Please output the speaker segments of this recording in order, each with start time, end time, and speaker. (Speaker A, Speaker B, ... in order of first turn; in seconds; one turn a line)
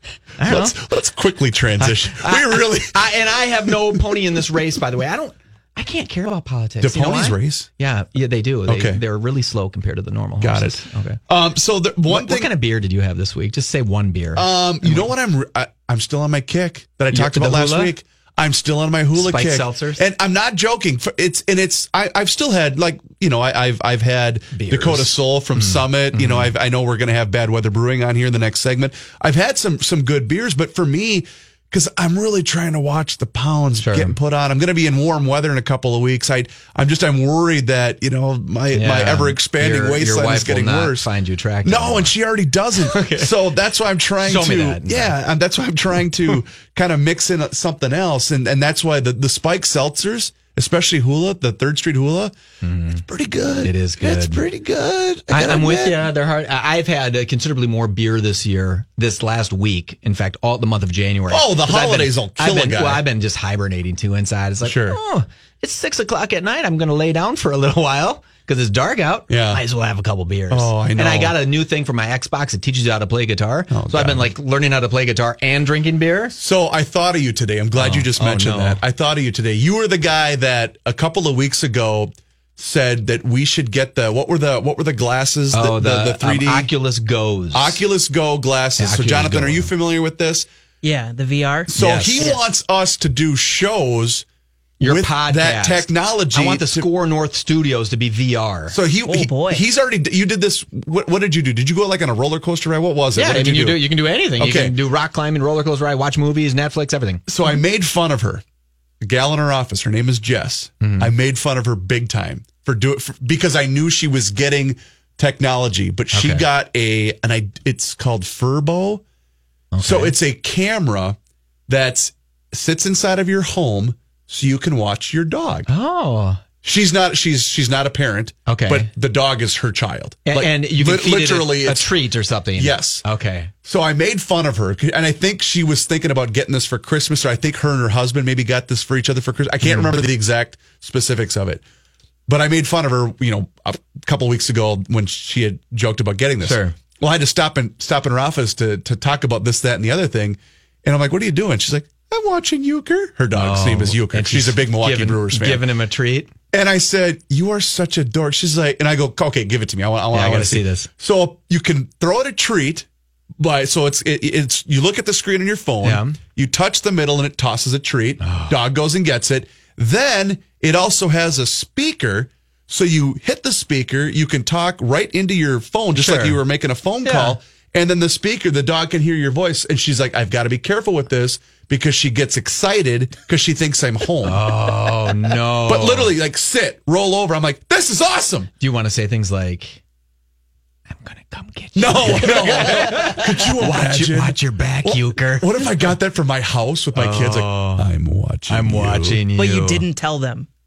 Speaker A: 0.4-0.8
Speaker B: 0.4-3.0
Speaker A: 1.8-11.2
Speaker B: 6.8-7.7
Speaker B: 8.7-9.0
Speaker B: 10.4-12.5
Speaker A: 12.1-15.1
Speaker B: 14.3-41.1
Speaker A: 17.1-17.9
Speaker A: 19.1-20.0
Speaker A: 24.5-26.5
Speaker A: 33.8-34.1
Speaker A: 38.7-42.1
Speaker B: 41.6-52.3
Speaker A: 42.8-43.3
Speaker A: 44.2-45.1
Speaker A: 52.6-53.0
Speaker B: 52.9-56.0
Speaker A: 53.5-54.5
Speaker A: 55.3-76.3
Speaker B: 61.3-63.0
Speaker B: 64.6-65.0
Speaker B: 69.3-69.6
Speaker B: 70.5-71.4
Speaker B: 73.7-74.3
Speaker B: 76.3-86.7
Speaker A: 77.7-78.8
Speaker A: 85.5-87.8
Speaker B: 87.5-90.5
Speaker A: 88.8-89.7
Speaker C: 90.8-92.4
Speaker B: 91.7-94.2
Speaker A: 91.7-92.3
Speaker A: 94.8-98.8
Speaker B: 94.8-96.9
Speaker B: 98.7-104.8
Speaker C: 99.0-99.6
Speaker A: 103.1-107.2
Speaker B: 107.3-108.4
Speaker B: 109.0-119.0
Speaker A: 110.8-111.1
Speaker A: 116.1-116.4
Speaker A: 119.7-120.1
Speaker B: 119.8-121.2
Speaker B: 121.7-125.7
Speaker A: 125.7-126.4
Speaker B: 126.6-131.9
Speaker A: 128.5-128.9
Speaker A: 130.2-133.5
Speaker B: 132.6-133.0
Speaker B: 133.6-141.6
Speaker A: 139.6-139.9
Speaker B: 142.3-155.7
Speaker A: 146.4-146.7
Speaker A: 153.3-156.3
Speaker B: 156.5-162.9
Speaker A: 160.1-160.9
Speaker B: 163.4-184.5
Speaker A: 165.8-166.2
Speaker A: 168.2-168.6
Speaker A: 175.9-176.4
Speaker A: 177.0-177.4
Speaker A: 184.2-186.1
Speaker B: 185.6-188.5
Speaker A: 188.6-189.8
Speaker A: 190.9-195.7
Speaker B: 191.7-199.2
Speaker A: 196.9-197.9
Speaker A: 198.5-199.8
Speaker C: 199.3-200.5